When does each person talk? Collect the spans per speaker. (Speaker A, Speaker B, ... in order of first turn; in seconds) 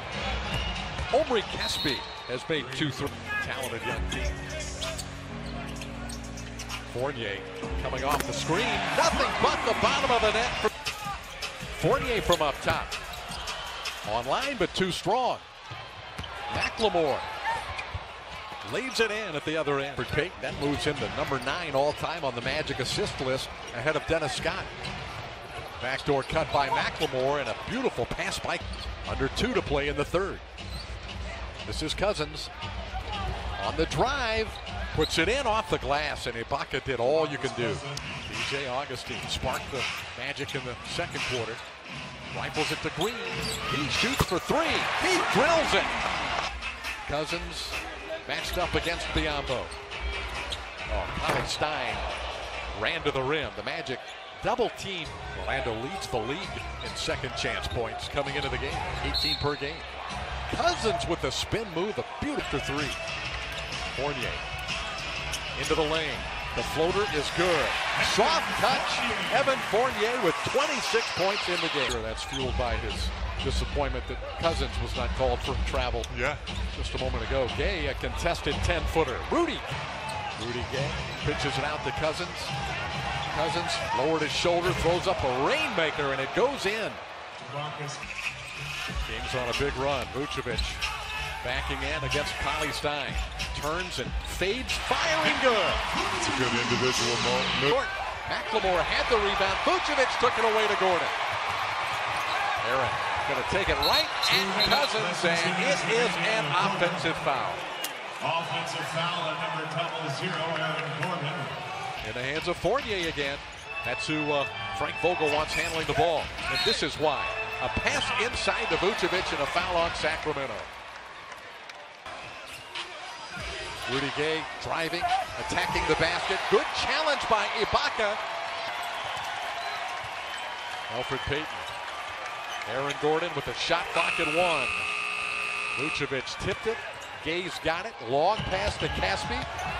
Speaker A: 1.1-4.4, 6.9-10.7, 11.7-12.9, 14.0-15.4, 16.5-17.3, 18.6-24.7, 25.8-30.4, 31.6-32.5, 33.6-41.6, 42.3-46.0, 47.0-49.7, 50.9-52.0, 52.7-59.9, 60.5-63.0, 63.9-64.4, 65.5-76.1, 76.7-79.7, 80.4-82.5, 83.3-87.0, 89.0-90.8, 91.4-95.8, 97.7-101.2, 102.6-107.6, 112.0-120.7, 123.8-128.2, 130.9-131.7, 132.6-134.8, 135.7-139.5
Speaker B: 76.1-76.4, 96.1-97.7
Speaker C: 108.3-111.5